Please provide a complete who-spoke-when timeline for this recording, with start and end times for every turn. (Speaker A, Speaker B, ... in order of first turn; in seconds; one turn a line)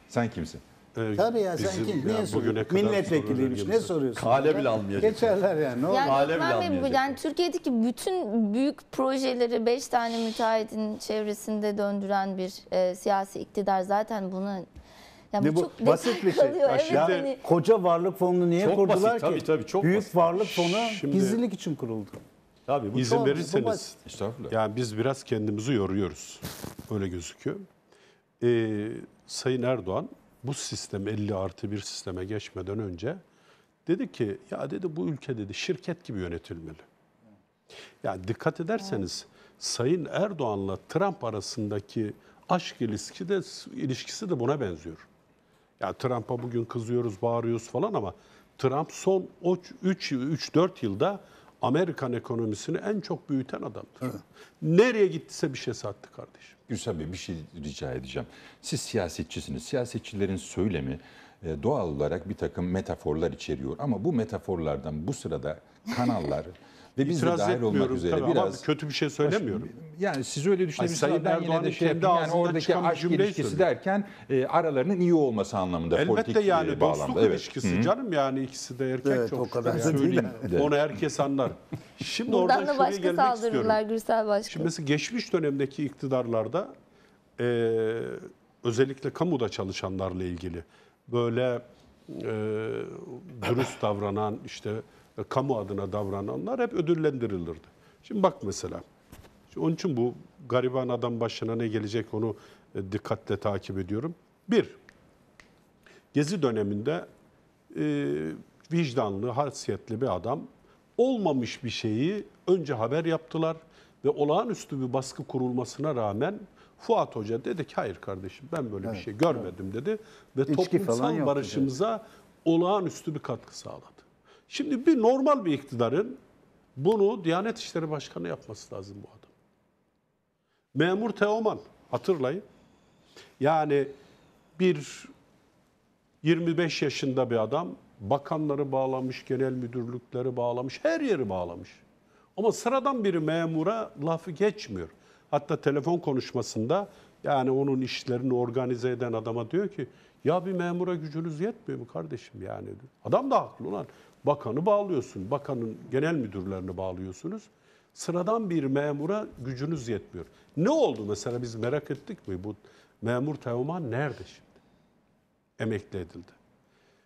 Speaker A: 0.1-0.6
Speaker B: 0.9-4.2
Speaker C: 1.2-6.3
Speaker D: 4.2-5.4
Speaker E: 5.9-14.7
Speaker D: 6.1-7.2
Speaker E: 15.3-17.4
Speaker C: 15.4-22.2
Speaker B: 16.8-17.3
Speaker D: 18.6-20.5
Speaker B: 20.5-21.4
Speaker D: 22.7-23.0
Speaker B: 22.9-24.0
Speaker C: 23.0-23.9
Speaker A: 24.1-24.6
Speaker B: 24.5-27.7
Speaker B: 28.4-33.2
Speaker B: 33.9-36.9
Speaker B: 38.0-45.0
Speaker B: 45.8-56.5
Speaker A: 56.7-68.7
Speaker B: 67.0-69.7
Speaker A: 69.2-77.9
Speaker B: 70.8-73.7
Speaker B: 75.9-83.8
Speaker C: 79.0-80.7
Speaker A: 79.9-80.8
Speaker E: 82.3-84.7
Speaker B: 84.5-86.7
Speaker B: 87.4-98.8
Speaker B: 99.5-104.8
Speaker B: 106.1-107.1
Speaker B: 107.7-126.2
Speaker C: 118.8-119.5
Speaker C: 120.5-121.7
Speaker B: 126.8-129.3
Speaker B: 130.8-132.4
Speaker B: 133.4-133.9
Speaker B: 134.6-135.1
Speaker B: 136.2-141.8
Speaker B: 142.4-164.6
Speaker B: 165.6-166.4